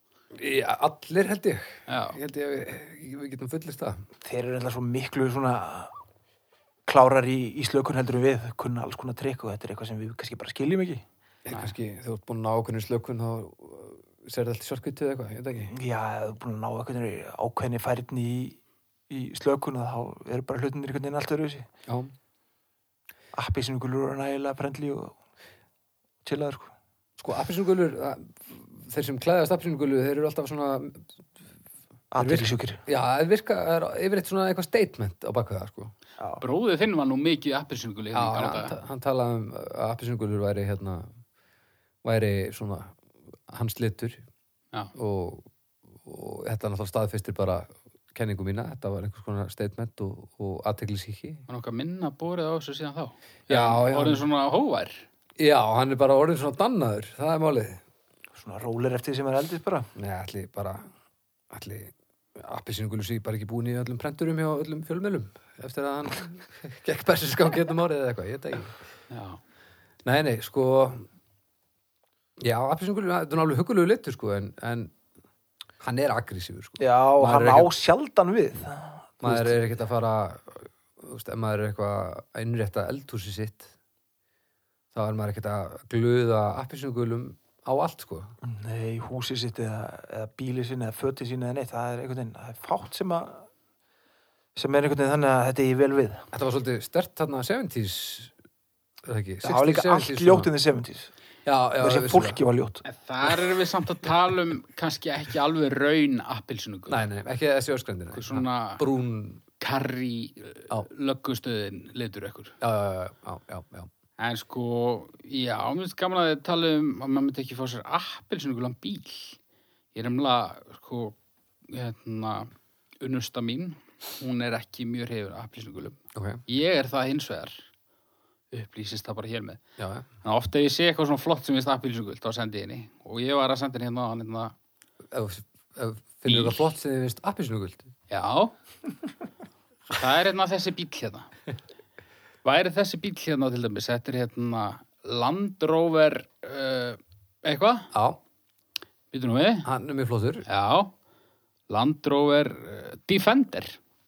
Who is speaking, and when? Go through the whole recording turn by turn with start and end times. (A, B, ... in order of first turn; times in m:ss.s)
0:00.3-0:04.0 A
0:01.9-0:02.2 B
0:04.2-0:05.9 C
0:06.9-0:11.0 C
0:11.4-0:15.7 A
0:11.5-0:11.8 B
0:15.7-0:18.6 C
0:19.1-0:21.7 C
0:21.9-0:22.1 A
0:23.3-0:25.2 C
0:26.2-0:26.7 C
0:27.2-0:31.1 A
0:32.1-0:32.8 C
0:32.2-0:35.9 A
0:36.2-0:36.4 C
0:36.4-0:38.8 B
0:38.1-0:41.1 A
0:42.0-0:43.0 A
0:43.5-0:44.2 A
0:45.0-0:45.5 A
0:46.0-0:51.4 A
0:51.5-0:55.1 B
0:53.5-0:54.2 A
0:55.4-0:57.8 A
0:58.3-0:59.9 C
1:00.0-1:00.9 A
1:01.5-1:08.8 A
1:09.1-1:09.4 B
1:10.0-1:11.1 A
1:12.4-1:14.9 A
1:15.8-1:17.7 A
1:16.8-1:19.6 C
1:19.2-1:23.7 A
1:24.9-1:28.3 A
1:28.4-1:33.5 C
1:34.6-1:36.3 C
1:36.3-1:38.3 A
1:39.0-1:40.5 A
1:39.4-1:41.1 C
1:41.5-1:42.4 A
1:41.8-1:42.8 C
1:42.8-1:47.0 B
1:46.9-1:49.4 A
1:48.1-1:48.8 B
1:49.6-1:52.6 B
1:52.6-1:53.9 A
1:54.2-1:59.4 B
1:59.9-2:01.2 B
2:01.7-2:07.7 B
2:06.1-2:06.4 A
2:08.5-2:09.6 B
2:09.8-2:10.1 A
2:10.2-2:14.6 B
2:15.1-2:17.9 A
2:16.3-2:16.6 B
2:18.1-2:18.5 B
2:19.9-2:21.3 B
2:22.4-2:27.9 B
2:27.9-2:28.2 A
2:29.1-2:29.7 B
2:29.6-2:30.4 A
2:30.5-2:30.9 B
2:31.7-2:33.8 B